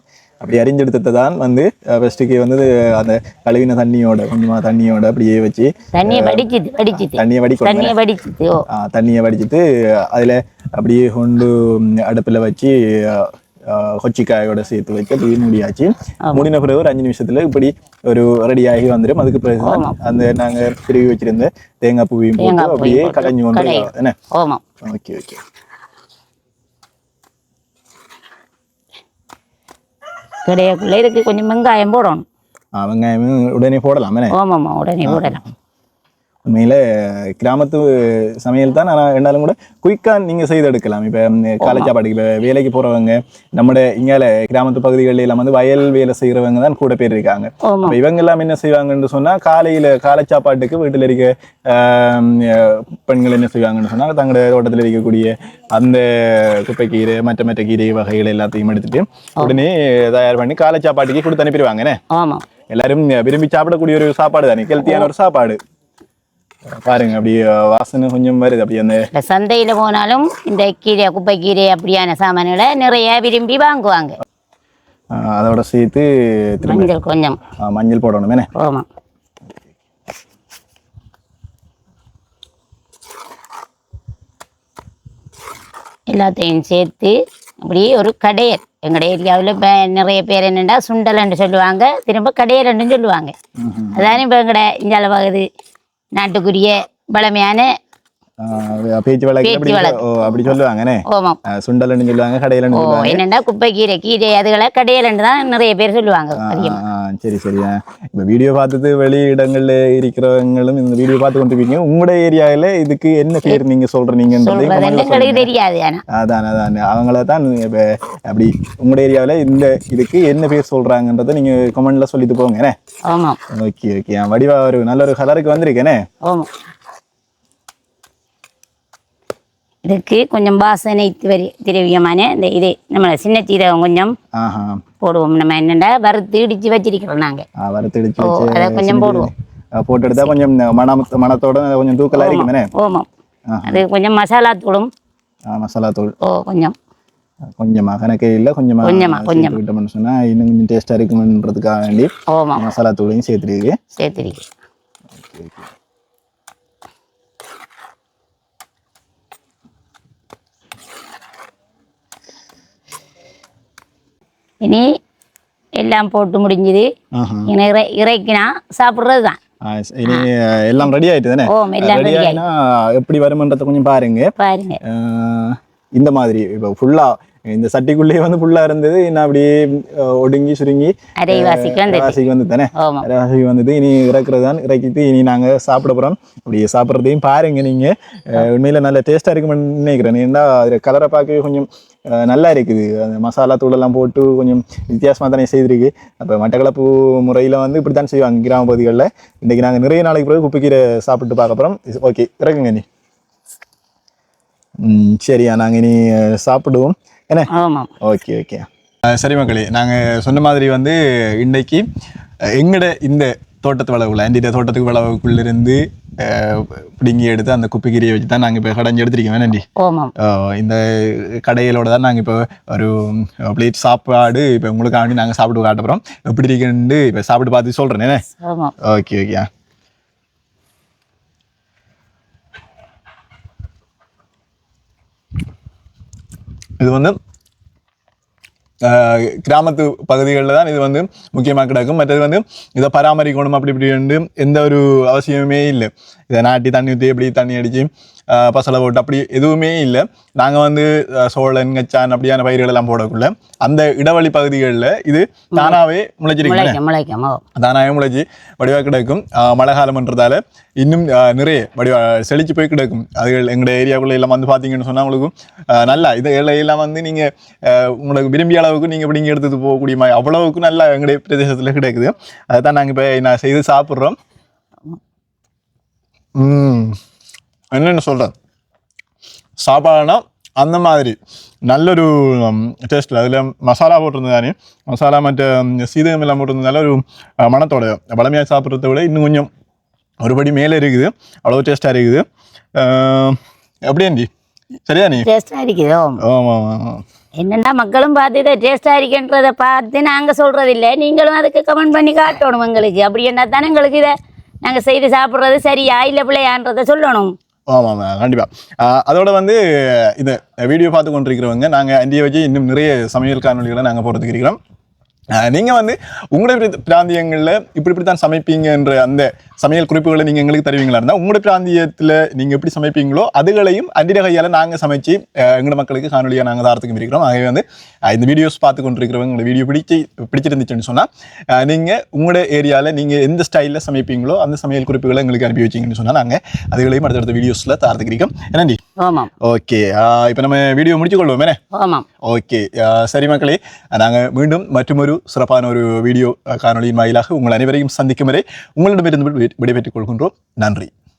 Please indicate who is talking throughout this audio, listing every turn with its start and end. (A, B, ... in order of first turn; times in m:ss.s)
0:00.4-0:06.4 A
0:05.9-0:08.6 B
0:07.0-0:07.9 A
0:08.7-0:24.1 A
0:19.6-0:20.0 B
0:22.4-0:24.6 B
0:24.8-0:25.4 A
0:30.4-0:32.2 B
0:32.8-0:34.3 A
0:34.3-0:35.4 B
0:35.0-0:35.4 A
0:36.5-1:02.0 A
0:41.6-0:41.9 B
0:47.6-0:48.0 B
1:02.1-1:02.4 B
1:02.7-1:05.6 A
1:04.8-1:05.1 B
1:06.7-1:09.1 A
1:09.1-1:14.2 B
1:15.1-1:16.9 A
1:16.6-1:17.4 B
1:17.6-1:18.5 A
1:18.6-1:18.8 B
1:26.1-1:33.3 B
1:33.6-1:34.2 A
1:33.9-1:35.4 B
1:36.2-1:37.7 B
1:38.4-1:43.2 A
1:39.4-1:40.5 B
1:41.1-1:41.4 B
1:42.7-1:46.8 B
1:46.3-1:55.5 A
1:54.4-1:56.0 B
1:56.1-2:02.7 A
2:03.1-2:03.4 B
2:03.5-2:06.0 A
2:09.8-2:14.1 B
2:14.4-2:14.8 A
2:15.0-2:17.4 B
2:17.6-2:22.7 A
2:18.2-2:19.3 B
2:22.1-2:23.1 B
2:23.5-2:23.8 A
2:23.6-2:24.9 B
2:25.5-2:26.1 A
2:26.2-2:26.7 B
2:27.6-2:33.8 A
2:28.8-2:29.6 B
2:32.3-2:32.6 B
2:34.0-2:34.4 B
2:35.2-2:35.7 A
2:45.8-2:46.9 B
2:47.1-2:47.5 A
2:47.5-2:49.4 B
2:49.6-2:54.3 A
2:51.5-2:52.4 B
2:54.4-2:54.8 B
2:54.8-3:22.8 A
3:01.2-3:02.2 B
3:02.8-3:03.0 B
3:24.8-3:27.5 A
3:27.5-3:27.9 B
3:28.0-3:31.9 A
3:32.6-3:39.6 A
3:39.8-3:40.1 B
3:40.2-3:48.2 A
3:48.4-3:48.7 B
3:48.8-3:49.5 A
3:56.8-3:57.2 A
3:58.8-4:16.8 A
4:16.4-4:17.4 B
4:17.6-4:34.2 A
4:36.4-4:37.0 A
4:37.7-4:38.3 A
4:39.6-4:49.5 A
4:50.2-4:52.2 A
4:52.8-4:54.3 A
4:54.8-4:55.3 A
4:55.2-4:56.2 B
4:56.2-4:57.0 A
4:57.4-5:07.3 B
5:07.7-5:14.6 A
5:15.3-5:38.8 A
5:39.0-5:39.3 B
5:39.4-5:41.6 A
5:41.7-5:42.0 B
5:42.2-5:50.9 A